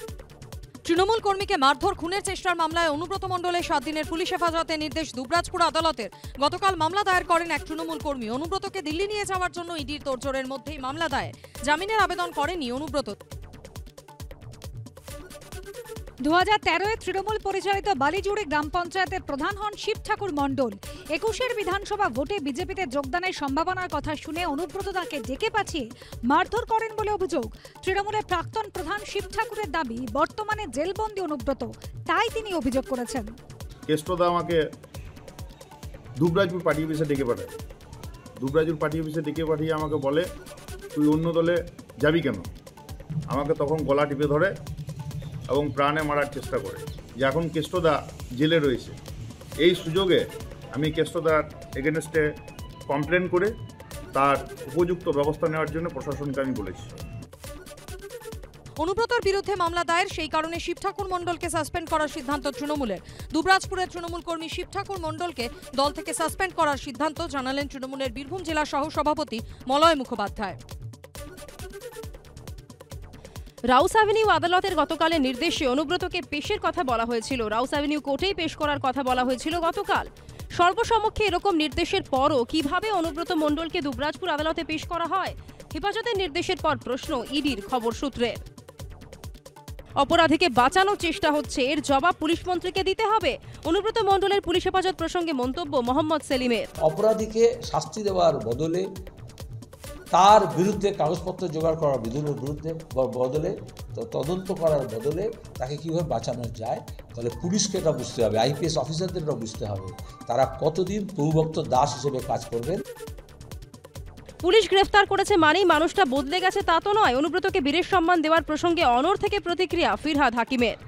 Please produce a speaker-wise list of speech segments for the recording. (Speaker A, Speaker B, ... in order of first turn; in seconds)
Speaker A: 0.8-13.2, 58.8-70.6
Speaker B: 16.2-33.3
Speaker C: 33.9-34.6, 36.2-37.6, 38.4-40.3, 40.9-42.5, 43.3-44.5, 45.5-49.0, 49.6-52.2, 52.9-53.5, 54.1-57.0
Speaker D: 73.7-88.4, 90.0-96.7, 114.4-120.8
Speaker E: 96.8-98.8, 100.1-112.8